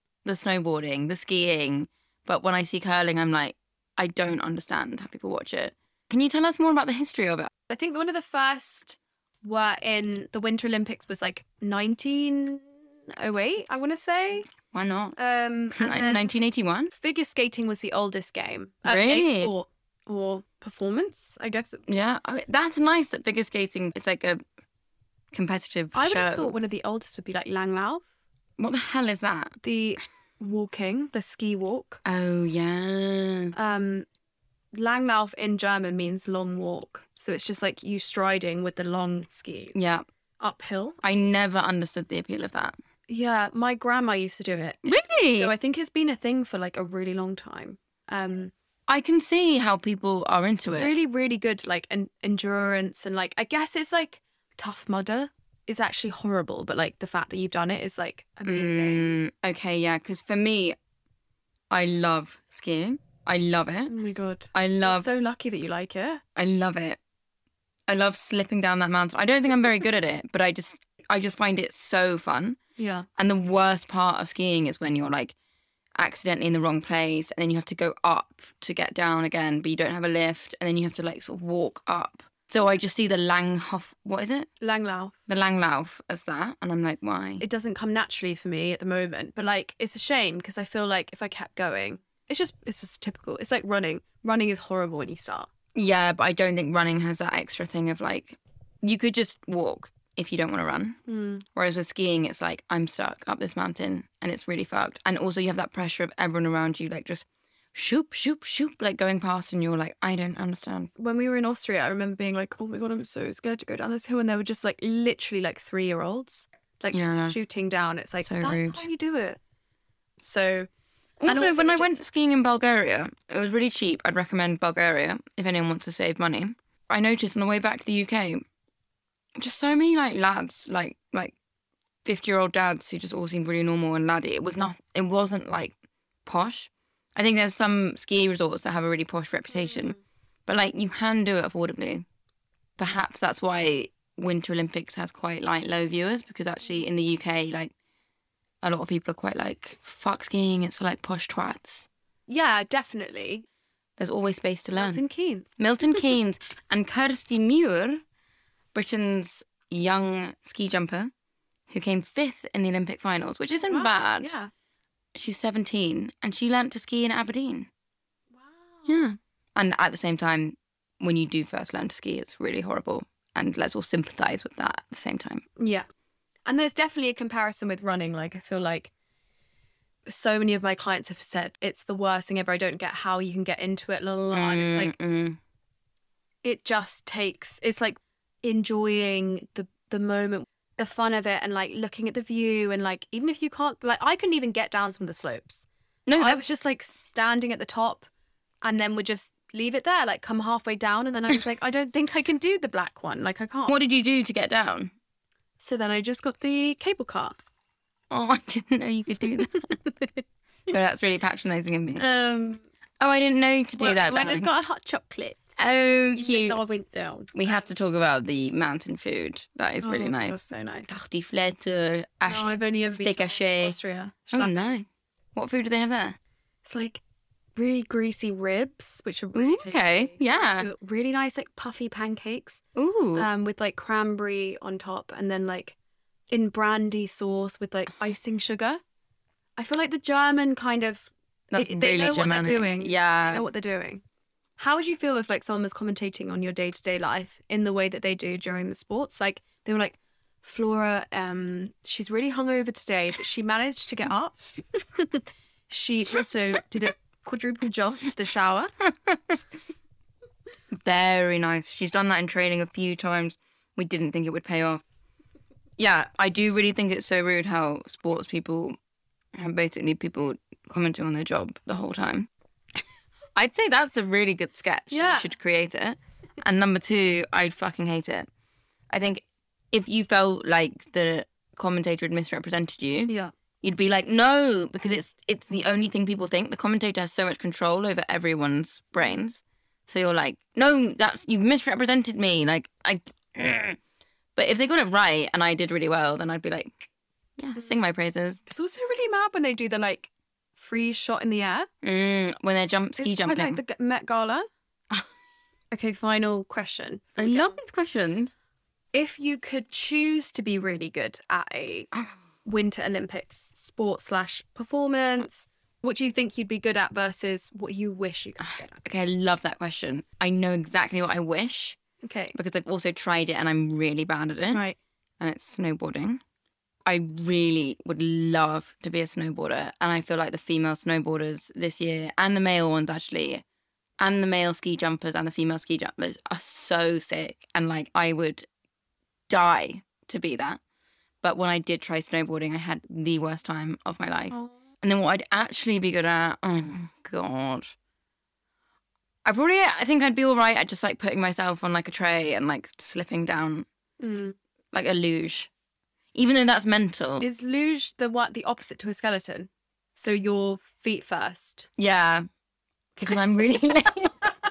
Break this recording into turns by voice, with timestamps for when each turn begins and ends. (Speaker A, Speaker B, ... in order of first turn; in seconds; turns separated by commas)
Speaker A: 0.2-7.5, Speaker B: 7.7-14.5, Speaker A: 14.7-15.2, Speaker B: 15.2-16.3, Speaker A: 15.7-16.9, Speaker B: 16.9-21.8, Speaker A: 18.9-19.5, Speaker A: 21.9-24.4, Speaker A: 25.3-26.6, Speaker B: 25.9-28.0, Speaker A: 28.6-29.6, Speaker B: 29.6-32.0, Speaker A: 32.0-33.6, Speaker B: 33.6-34.0, Speaker B: 34.7-39.8, Speaker A: 39.7-40.1, Speaker B: 40.4-41.0, Speaker A: 41.0-42.8, Speaker B: 43.1-48.5, Speaker A: 44.9-45.5, Speaker A: 48.9-50.9, Speaker B: 50.8-59.1, Speaker A: 58.5-60.8, Speaker A: 61.7-63.9, Speaker B: 63.9-66.2, Speaker A: 64.5-65.1, Speaker A: 66.4-67.0, Speaker A: 67.9-72.6, Speaker B: 72.8-73.1, Speaker A: 73.2-75.3, Speaker A: 76.0-84.5, Speaker B: 84.6-85.2, Speaker A: 85.3-87.5, Speaker B: 87.4-95.5, Speaker A: 95.8-101.0, Speaker B: 101.1-101.5, Speaker A: 101.5-110.9, Speaker B: 111.0-119.4, Speaker A: 116.9-117.4, Speaker A: 118.2-118.9, Speaker B: 120.2-120.7, Speaker A: 121.2-128.4, Speaker B: 121.2-122.0, Speaker A: 129.4-131.3, Speaker A: 132.1-135.7, Speaker A: 136.3-140.0, Speaker A: 140.5-142.1, Speaker A: 142.8-147.7, Speaker A: 148.6-151.9, Speaker B: 152.3-153.5, Speaker A: 154.0-155.0, Speaker B: 154.8-155.5, Speaker A: 155.6-158.0, Speaker A: 158.7-161.1, Speaker A: 161.7-164.3, Speaker B: 163.6-164.5, Speaker A: 165.2-167.7, Speaker B: 168.3-169.0, Speaker A: 168.9-175.4, Speaker B: 175.6-175.9, Speaker B: 176.5-178.9, Speaker B: 180.1-184.9, Speaker A: 184.3-185.4, Speaker B: 186.4-198.1, Speaker A: 196.1-196.4, Speaker B: 198.6-203.8, Speaker A: 203.7-204.9, Speaker B: 205.6-207.4, Speaker A: 208.1-209.8, Speaker A: 210.7-212.0, Speaker B: 212.0-212.6, Speaker A: 213.0-214.5, Speaker B: 213.8-215.4, Speaker A: 215.6-216.6, Speaker B: 216.2-217.6, Speaker A: 217.3-220.4, Speaker B: 219.8-220.9, Speaker A: 220.9-223.8, Speaker B: 222.3-224.8, Speaker A: 224.3-226.2, Speaker B: 226.7-227.0, Speaker B: 227.6-232.6, Speaker A: 229.3-230.7, Speaker A: 232.8-233.3, Speaker B: 233.2-235.8, Speaker B: 236.3-238.8, Speaker B: 239.6-244.0, Speaker A: 241.5-243.4, Speaker B: 244.6-258.7, Speaker A: 259.1-259.5, Speaker A: 260.7-264.8, Speaker A: 265.8-268.8, Speaker A: 269.4-272.3, Speaker A: 273.4-278.3, Speaker B: 274.9-275.3, Speaker A: 278.9-293.8, Speaker A: 294.4-296.8, Speaker A: 297.4-298.4, Speaker B: 297.6-297.8, Speaker B: 298.5-301.7, Speaker A: 301.8-303.6, Speaker B: 303.0-304.5, Speaker B: 305.7-307.6, Speaker A: 307.2-308.3, Speaker B: 308.9-311.9, Speaker B: 312.4-318.8, Speaker A: 318.5-321.8, Speaker B: 322.0-322.4, Speaker A: 322.3-324.6, Speaker B: 324.5-324.8, Speaker A: 325.2-326.2, Speaker A: 326.9-333.4, Speaker A: 334.0-338.5, Speaker A: 339.3-340.6, Speaker A: 341.2-347.7, Speaker A: 349.2-353.7, Speaker B: 354.0-354.4, Speaker A: 354.7-355.5, Speaker A: 356.1-357.3, Speaker B: 357.2-361.7, Speaker A: 361.8-362.3, Speaker A: 363.0-364.3